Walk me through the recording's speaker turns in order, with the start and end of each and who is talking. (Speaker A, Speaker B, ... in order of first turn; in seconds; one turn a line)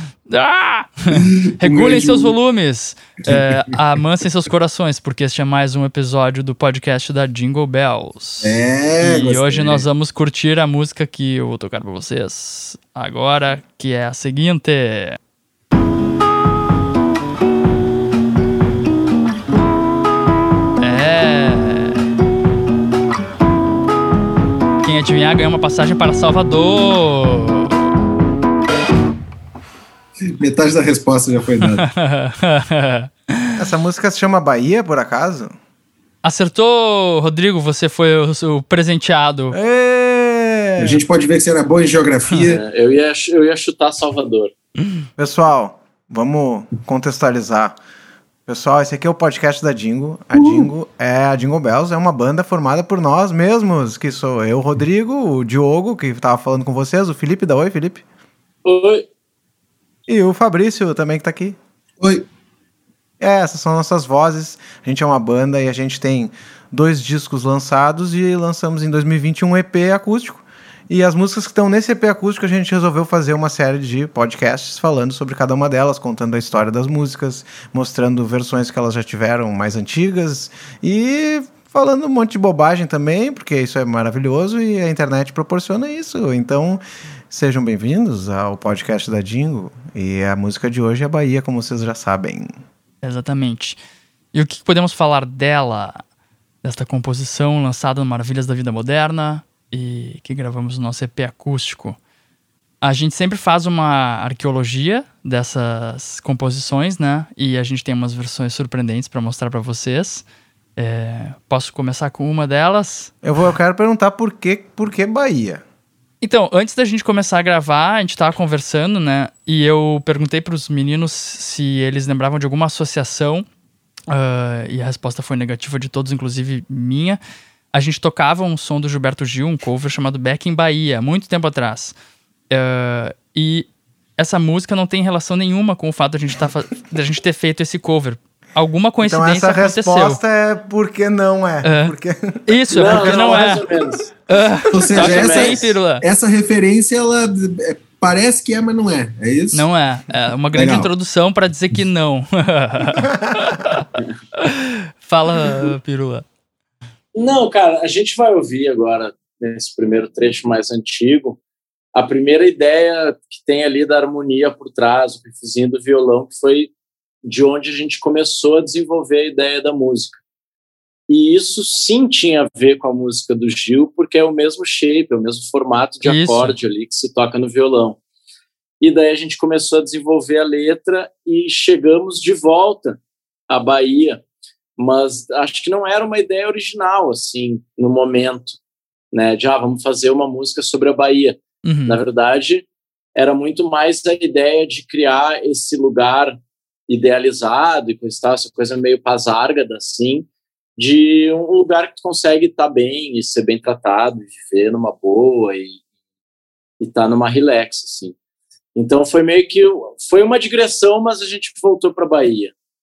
Speaker A: 0.2-15.2
Speaker B: 1.1-2.3
Speaker B: 3.3-3.6
Speaker B: 8.4-9.8
Speaker A: 20.8-22.0
Speaker A: 24.8-27.7
Speaker B: 30.3-31.9
Speaker A: 31.8-33.6
Speaker C: 33.5-35.5
Speaker A: 36.2-39.6
Speaker C: 39.5-41.0
Speaker B: 40.8-42.6
Speaker D: 42.4-44.5
Speaker C: 45.2-47.8
Speaker C: 48.5-58.0
Speaker B: 50.3-50.7
Speaker D: 58.6-59.1
Speaker C: 60.1-61.6
Speaker B: 62.0-62.2
Speaker C: 63.2-92.5
Speaker A: 93.0-93.8
Speaker A: 94.3-96.0
Speaker A: 96.6-102.0
Speaker A: 102.8-110.2
Speaker A: 110.8-113.1
Speaker C: 113.2-115.6
Speaker A: 116.2-123.5
Speaker A: 124.1-127.2
Speaker A: 127.7-131.9
Speaker A: 132.5-140.2
Speaker C: 139.0-144.0
Speaker A: 141.6-141.9
Speaker A: 142.5-143.6
Speaker D: 142.7-144.0
Speaker A: 144.3-146.0
Speaker B: 144.7-149.7
Speaker D: 144.9-145.7
Speaker A: 149.5-153.8
Speaker B: 150.5-150.9
Speaker C: 153.0-153.6
Speaker A: 154.4-156.2
Speaker D: 157.1-161.4
Speaker D: 161.9-166.7
Speaker D: 167.2-170.2
Speaker D: 171.1-178.0
Speaker A: 176.0-176.6
Speaker D: 178.8-184.2
Speaker D: 184.8-188.6
Speaker D: 189.1-205.8
Speaker A: 191.6-192.0
Speaker D: 206.8-208.1
Speaker D: 208.7-212.5